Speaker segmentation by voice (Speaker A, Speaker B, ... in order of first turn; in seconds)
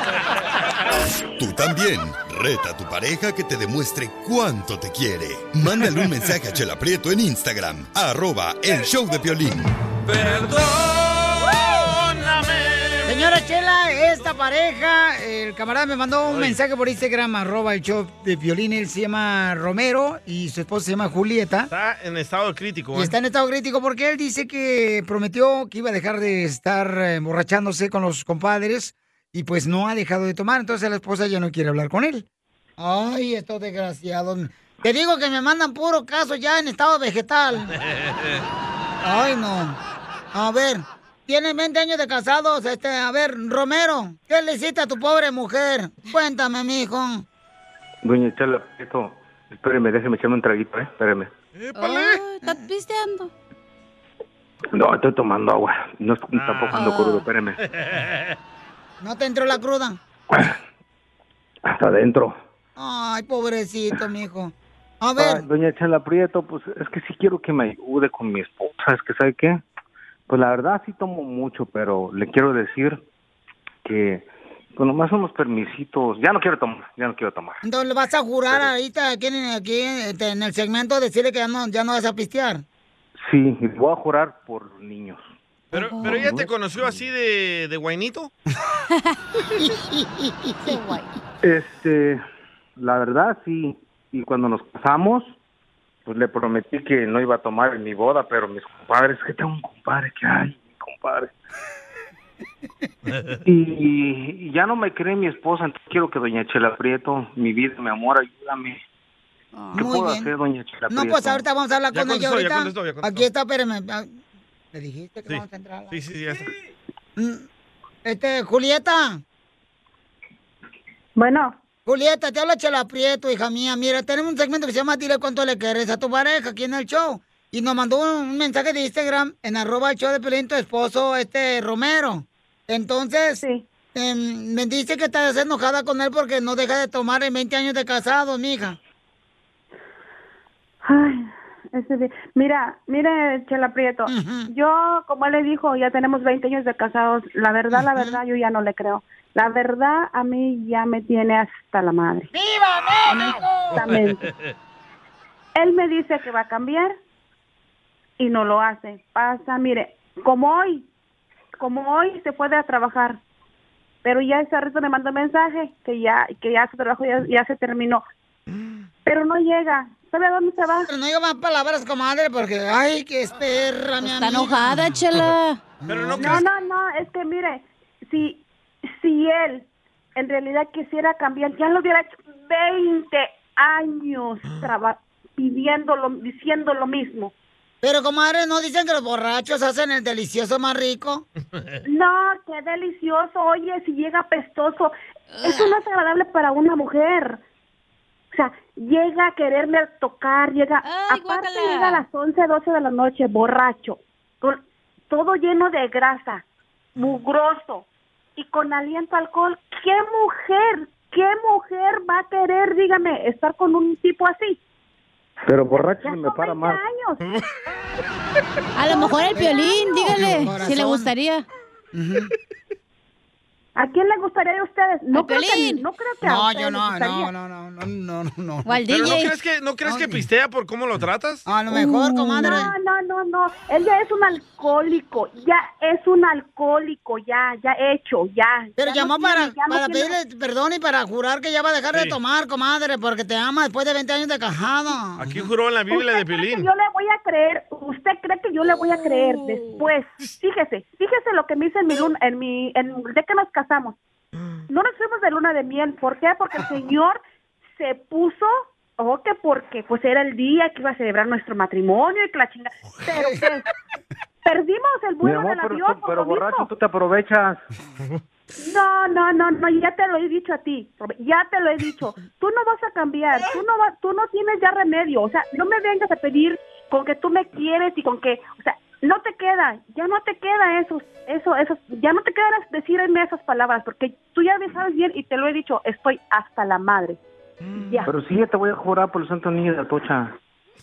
Speaker A: 1.4-9.7
Speaker B: 10.1-13.3, 16.3-16.6, 21.7-23.1, 37.8-38.4, 51.6-52.2, 56.4-56.9, 57.6-58.4, 85.7-88.3, 111.9-113.3, 115.3-116.5, 153.8-154.5, 175.9-176.5, 228.9-231.5, 241.9-242.2, 245.2-246.7, 287.6-288.0
Speaker C: 13.1-21.7, 22.9-32.3, 32.8-37.7, 39.0-39.8, 40.3-47.2, 59.0-60.0, 62.8-65.4, 77.6-82.6, 89.5-90.9, 109.8-110.3, 110.9-114.2, 114.7-116.0, 117.2-117.5, 118.0-119.2, 121.9-133.4, 133.9-138.8, 144.1-144.5, 147.7-148.2, 152.3-153.9, 170.9-174.8, 175.8-176.4, 187.8-191.3, 219.3-221.1, 221.9-222.3, 226.2-229.2, 229.8-230.3, 231.5-232.7, 238.8-245.5
Speaker D: 48.0-51.3, 54.7-57.6, 60.3-60.6, 61.7-62.4, 65.2-69.6, 70.3-73.0, 73.8-77.6, 83.2-85.3, 86.0-87.0, 91.4-92.2, 92.8-95.4, 96.0-101.3, 103.5-108.8, 109.7-111.5, 215.5-216.8, 265.2-267.6, 288.1-290.4
Speaker E: 51.8-53.3, 56.7-57.3, 85.8-86.3, 90.7-91.1, 174.0-175.6, 195.3-195.8, 200.8-202.1, 218.8-221.5, 225.1-225.8, 228.7-229.3, 231.7-232.6
Speaker F: 121.2-121.6, 133.4-133.7, 140.8-152.3, 153.1-154.3, 155.6-156.9, 158.2-160.9, 161.6-163.2, 164.0-168.0, 169.1-170.9, 176.2-187.3, 191.8-197.4, 198.3-206.4, 207.0-214.6, 216.0-217.2, 218.9-219.9, 223.8-227.3, 232.4-240.2, 245.9-254.0, 254.7-257.2, 257.7-263.7, 264.4-266.7, 268.6-287.2, 287.7-288.1